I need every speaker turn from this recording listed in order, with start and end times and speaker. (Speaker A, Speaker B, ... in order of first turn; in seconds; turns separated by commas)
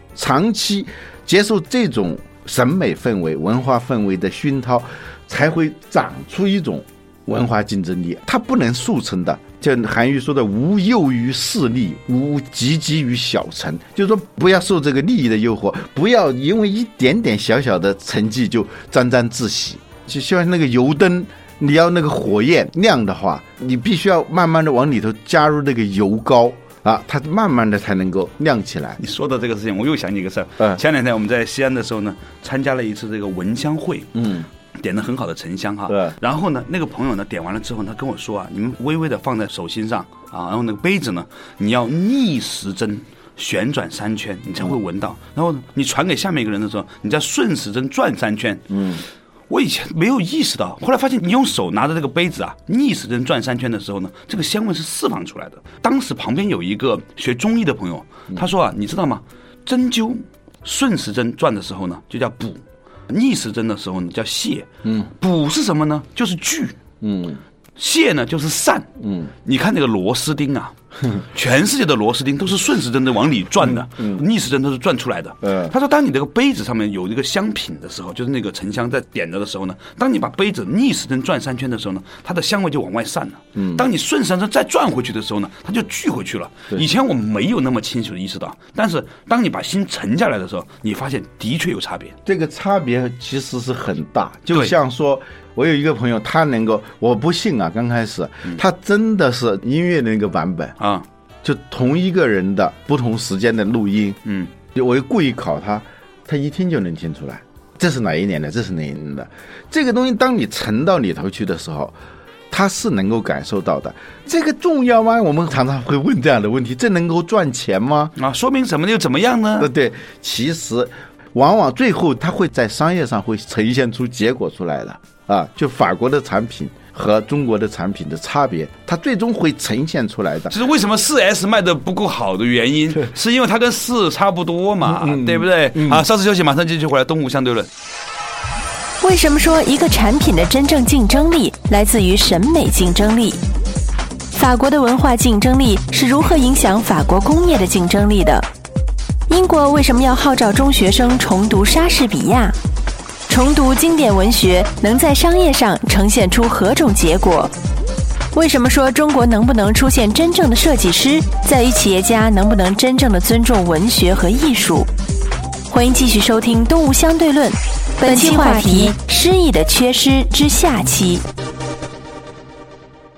Speaker A: 0.1-29.0, Speaker B: 29.0-34.2, Speaker A: 34.1-34.5, Speaker B: 34.8-48.8, Speaker A: 35.9-36.1, Speaker A: 48.7-49.0, Speaker B: 49.5-66.8, Speaker A: 64.8-65.1, Speaker A: 67.0-67.4, Speaker B: 67.8-68.9, Speaker A: 69.0-69.3, Speaker B: 69.4-92.1, Speaker A: 73.6-74.2, Speaker A: 75.4-75.7, Speaker A: 83.5-83.8, Speaker A: 92.2-100.7, Speaker B: 100.8-101.0, Speaker A: 101.4-111.9, Speaker A: 112.5-118.1, Speaker B: 118.2-119.7, Speaker A: 119.6-130.6, Speaker B: 130.5-137.7, Speaker A: 134.9-136.0, Speaker C: 139.0-143.4, Speaker C: 144.3-148.5, Speaker C: 149.3-152.6, Speaker C: 153.3-157.5, Speaker C: 158.3-164.9, Speaker C: 165.7-171.2